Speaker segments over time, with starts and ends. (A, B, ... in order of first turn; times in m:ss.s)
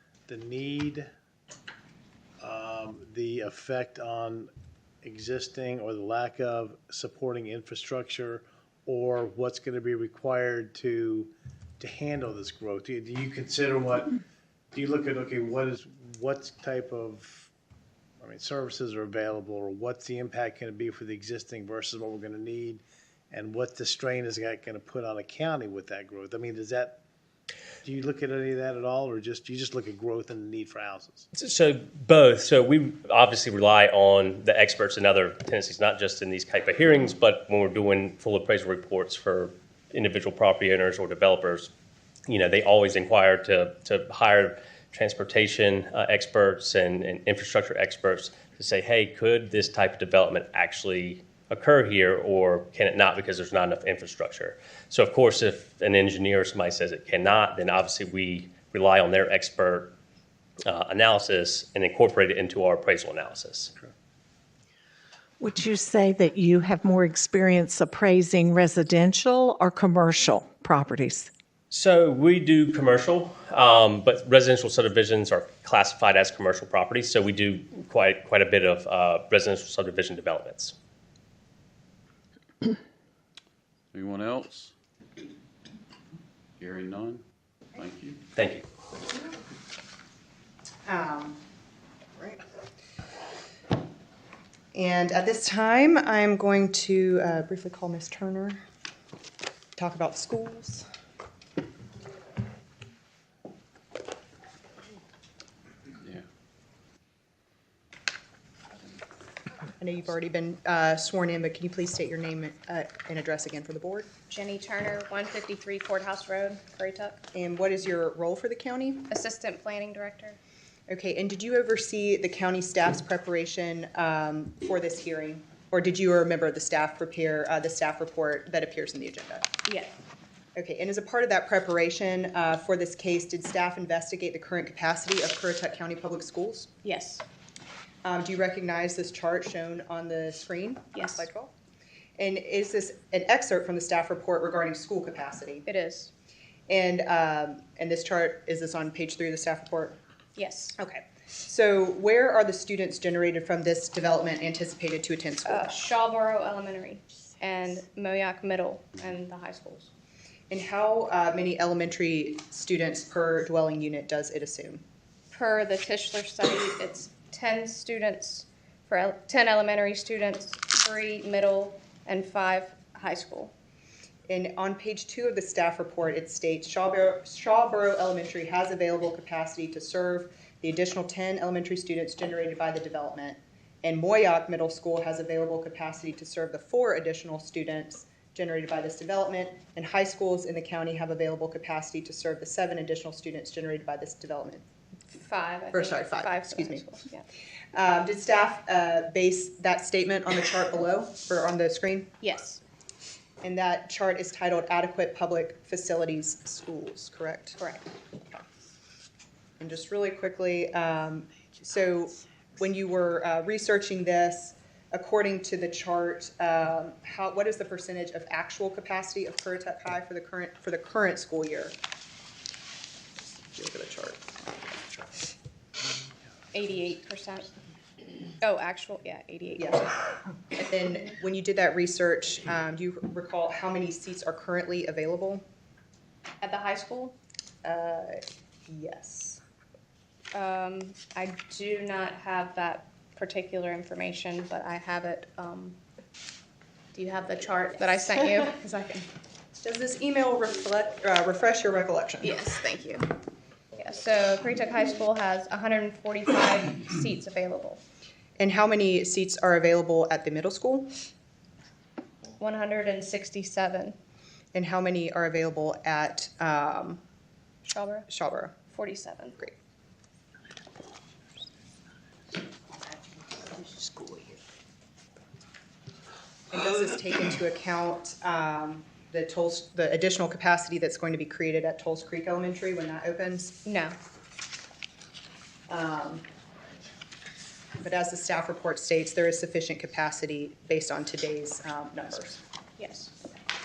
0:00.3-0:01.1 A
0:02.4-0:04.5 A
0:05.0-0:14.1 A
0:14.7-0:17.5 A
0:18.2-0:27.0 A
0:27.8-0:31.3 A
0:31.3-0:41.7 B
0:42.3-0:59.9 B
1:00.6-1:03.7 B
1:05.4-1:11.3 C
1:11.7-1:20.7 B
1:23.9-1:24.7 D
1:26.6-1:27.2 D
1:27.7-1:28.2 D
1:28.3-1:28.6 B
1:30.8-1:31.4 E
1:32.2-1:32.4 E
1:34.7-1:38.6 E
1:39.8-1:40.9 E
1:49.8-1:54.1 E
1:54.3-1:57.2 F
1:57.3-1:59.1 E
1:59.1-2:00.4 F
2:00.9-2:09.5 E
2:09.6-2:10.0 F
2:10.5-2:16.7 E
2:16.8-2:17.2 F
2:18.0-2:21.5 E
2:20.9-2:21.2 F
2:22.2-2:25.6 E
2:25.6-2:26.1 F
2:26.7-2:30.0 E
2:30.3-2:30.8 F
2:30.8-2:35.8 E
2:35.4-2:39.9 F
2:40.5-2:44.8 E
2:45.3-2:53.5 F
2:54.3-3:14.6 E
3:15.1-3:17.2 F
3:15.7-3:16.9 E
3:17.7-3:22.1 E
3:22.2-3:22.6 F
3:23.4-3:27.6 E
3:27.6-3:27.9 F
3:29.6-3:41.8 E
3:43.2-3:45.2 E
3:46.5-3:47.5 F
3:48.4-3:49.9 F
3:49.6-3:49.9 E
3:50.5-3:55.4 E
3:56.4-3:57.2 F
3:57.6-3:59.4 E
4:00.3-4:05.8 F
4:06.9-4:09.1 F
4:09.6-4:12.4 E
4:12.2-4:13.2 F
4:13.7-4:17.8 F
4:18.4-4:20.9 E
4:22.4-4:24.0 F
4:24.5-4:27.0 E
4:27.6-4:28.1 F
4:28.1-4:28.6 E
4:28.7-4:29.4 F
4:36.5-4:43.6 E
4:43.6-4:44.0 F
4:45.7-4:46.2 E
4:47.8-4:52.4 E
4:52.8-4:53.1 F